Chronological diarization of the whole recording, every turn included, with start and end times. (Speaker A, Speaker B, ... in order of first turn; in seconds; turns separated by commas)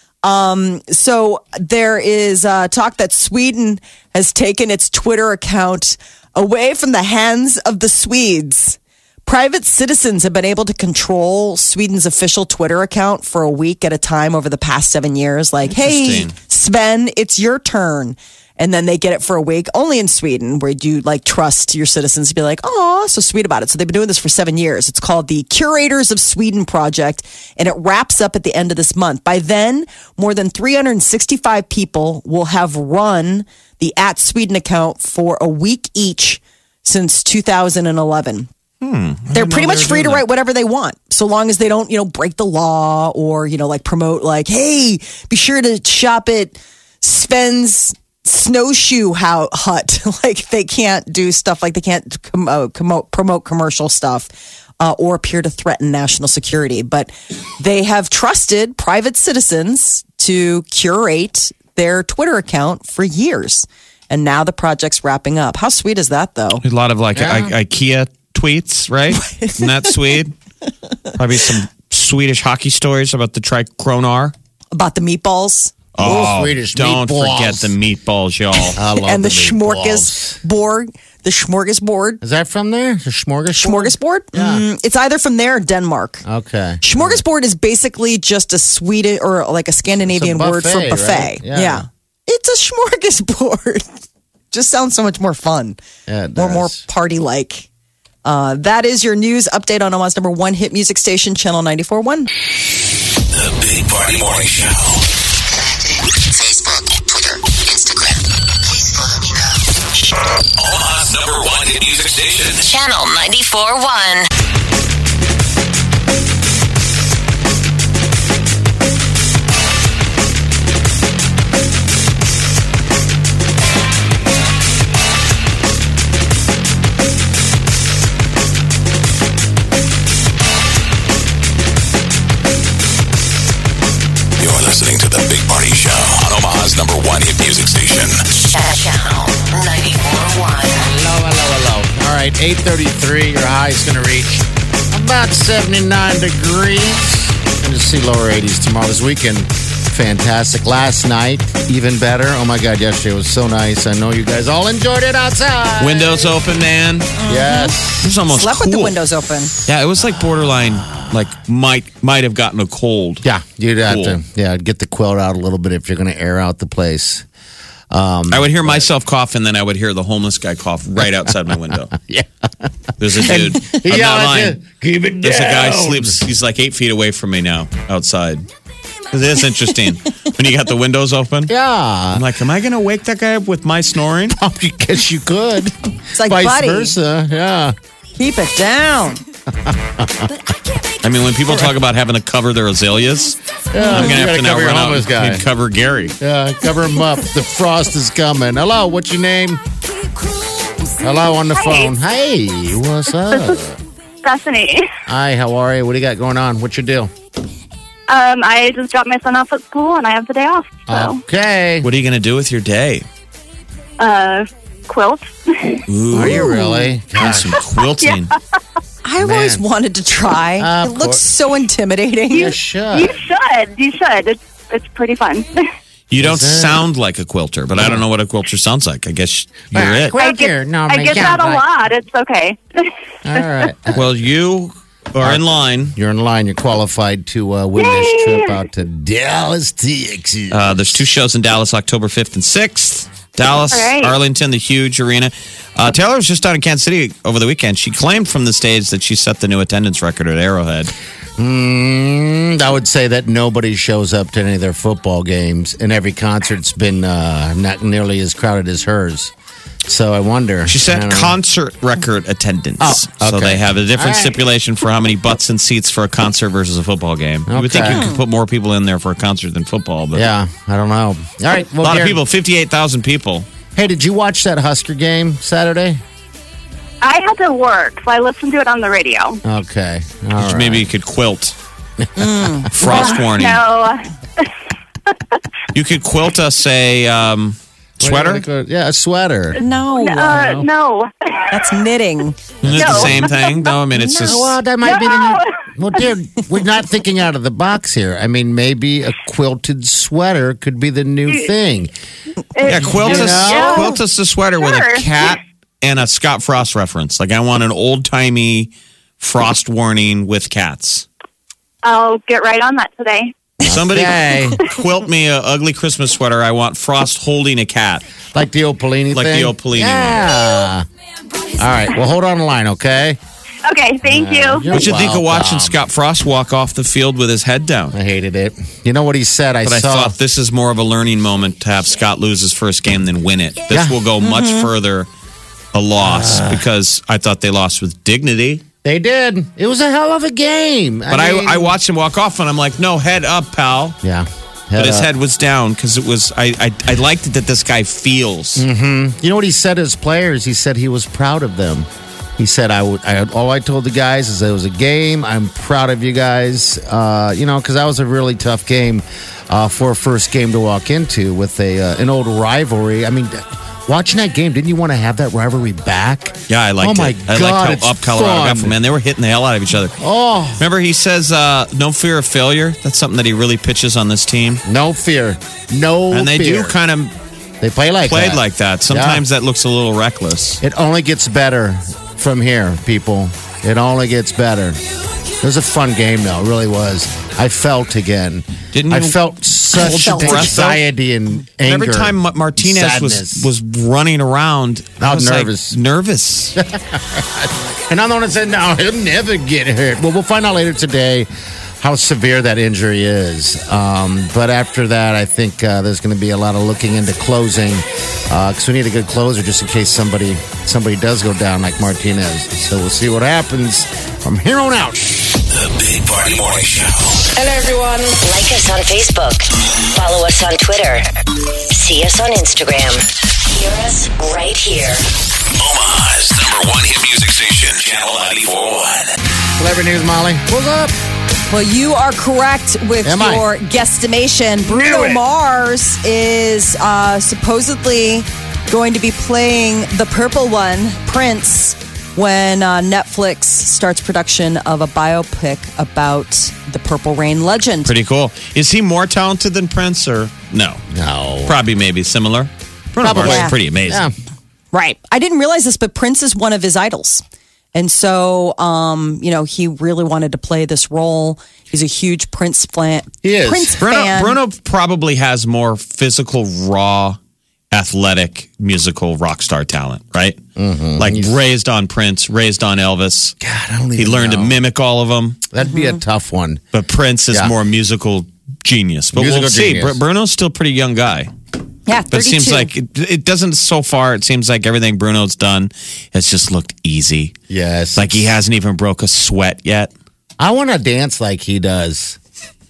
Speaker A: 0.2-38.5, Speaker B: 15.7-16.3, Speaker B: 38.8-40.2, Speaker A: 39.3-66.6, Speaker B: 66.6-70.3, Speaker C: 67.1-67.5, Speaker A: 69.2-70.0, Speaker B: 71.1-74.3, Speaker A: 74.7-75.7, Speaker B: 75.9-78.8, Speaker C: 76.0-77.7, Speaker C: 78.7-80.4, Speaker A: 79.0-82.2, Speaker C: 82.2-84.6, Speaker A: 83.5-86.2, Speaker C: 86.2-87.2, Speaker A: 86.8-94.0, Speaker C: 90.1-91.8, Speaker A: 94.5-95.8, Speaker C: 96.1-96.8, Speaker A: 96.3-97.7, Speaker A: 98.2-102.3, Speaker D: 103.3-105.0, Speaker E: 105.5-109.6, Speaker D: 110.6-112.6, Speaker E: 112.6-114.3, Speaker D: 134.4-138.2, Speaker E: 138.3-140.8, Speaker C: 140.8-156.3, Speaker B: 155.8-157.1, Speaker A: 157.2-157.7, Speaker C: 157.2-158.1, Speaker B: 158.0-158.9, Speaker A: 158.2-159.5, Speaker B: 159.7-163.2, Speaker C: 160.0-161.2, Speaker C: 163.2-167.2, Speaker B: 163.9-164.2, Speaker C: 167.9-168.9, Speaker B: 168.3-171.9, Speaker C: 171.9-176.2, Speaker B: 173.0-174.6, Speaker B: 175.2-178.4, Speaker B: 179.1-181.5, Speaker C: 181.5-182.3, Speaker B: 182.1-184.4, Speaker C: 184.3-187.7, Speaker A: 186.2-186.9, Speaker A: 188.2-189.2, Speaker C: 189.6-190.3, Speaker B: 191.0-196.1, Speaker C: 193.7-195.4, Speaker C: 196.2-199.6, Speaker C: 201.0-203.8, Speaker F: 201.5-201.9, Speaker F: 203.3-203.6, Speaker F: 204.2-204.9, Speaker C: 205.1-207.1, Speaker F: 208.1-211.2, Speaker C: 210.9-211.9, Speaker B: 211.8-213.0, Speaker F: 214.0-215.8, Speaker B: 215.9-216.6, Speaker C: 216.1-217.6, Speaker A: 216.2-216.9, Speaker B: 217.2-218.3, Speaker F: 218.0-218.3, Speaker A: 219.0-222.5, Speaker C: 219.2-219.6, Speaker C: 220.6-221.2, Speaker C: 222.3-223.2, Speaker F: 222.3-225.7, Speaker B: 226.1-230.2, Speaker C: 226.2-226.8, Speaker C: 227.8-228.0, Speaker C: 229.7-231.6, Speaker F: 230.2-233.4, Speaker C: 233.2-234.1, Speaker B: 233.9-235.9, Speaker C: 235.2-241.0, Speaker F: 237.8-238.6, Speaker B: 240.5-250.9, Speaker F: 243.7-244.2, Speaker C: 251.4-259.3, Speaker C: 259.8-261.4, Speaker B: 260.6-270.3, Speaker C: 262.8-264.4, Speaker C: 267.5-268.1, Speaker A: 267.9-268.2, Speaker C: 270.1-272.2, Speaker B: 271.8-273.4, Speaker C: 273.7-276.0, Speaker F: 277.0-279.4, Speaker C: 279.4-280.9, Speaker B: 280.4-281.5, Speaker C: 282.0-282.7, Speaker A: 282.2-282.9, Speaker B: 282.7-283.6, Speaker F: 282.8-284.5, Speaker B: 285.7-288.4, Speaker C: 288.0-289.6, Speaker A: 289.6-290.7, Speaker F: 289.9-291.7, Speaker A: 291.5-292.4, Speaker B: 292.6-294.5, Speaker C: 292.6-293.2, Speaker F: 292.7-293.7, Speaker A: 293.9-294.3, Speaker C: 294.2-301.9, Speaker F: 294.8-295.6, Speaker F: 302.5-304.0, Speaker C: 302.6-304.0, Speaker B: 302.6-311.1, Speaker F: 304.6-305.4, Speaker F: 311.8-313.3, Speaker C: 313.6-314.6, Speaker B: 313.6-318.0, Speaker C: 318.3-320.8, Speaker B: 319.1-320.2, Speaker C: 321.6-323.2, Speaker F: 323.6-324.7, Speaker C: 324.1-325.8, Speaker B: 324.7-328.0, Speaker C: 327.9-330.1, Speaker B: 329.6-335.1, Speaker C: 333.7-334.0, Speaker A: 334.2-334.7, Speaker B: 335.7-338.6, Speaker C: 336.0-336.6, Speaker C: 338.8-341.7, Speaker B: 341.1-344.0, Speaker C: 344.0-345.1, Speaker B: 344.8-348.6, Speaker C: 348.6-368.8, Speaker B: 366.5-370.0, Speaker C: 370.0-370.6, Speaker B: 370.6-374.6, Speaker C: 374.6-376.7, Speaker B: 376.1-377.1, Speaker C: 377.6-379.2, Speaker B: 378.1-380.6, Speaker C: 380.6-384.8, Speaker C: 385.4-393.5, Speaker B: 388.7-389.2, Speaker B: 389.7-390.8, Speaker A: 389.9-390.5, Speaker B: 391.6-396.6, Speaker C: 395.0-395.8, Speaker C: 396.6-401.3, Speaker C: 401.8-415.0, Speaker D: 415.5-417.3, Speaker E: 417.4-421.1, Speaker E: 421.7-425.1, Speaker D: 425.6-429.1, Speaker C: 429.6-430.9, Speaker A: 431.5-447.9, Speaker C: 433.0-433.4, Speaker C: 434.6-435.2, Speaker B: 447.8-450.8, Speaker C: 450.9-451.6, Speaker B: 451.4-454.1, Speaker C: 453.0-454.1, Speaker A: 453.2-453.6, Speaker A: 454.7-457.2, Speaker A: 457.7-464.4, Speaker C: 463.2-463.8, Speaker B: 463.8-467.2, Speaker B: 467.7-470.4, Speaker C: 470.6-471.3, Speaker B: 471.0-473.3, Speaker C: 473.4-474.5, Speaker B: 474.0-475.4, Speaker C: 475.5-476.6, Speaker B: 476.7-481.3, Speaker C: 479.1-480.0, Speaker A: 481.9-482.7, Speaker B: 482.1-487.3, Speaker C: 487.5-488.3, Speaker B: 487.9-489.9, Speaker C: 490.4-492.2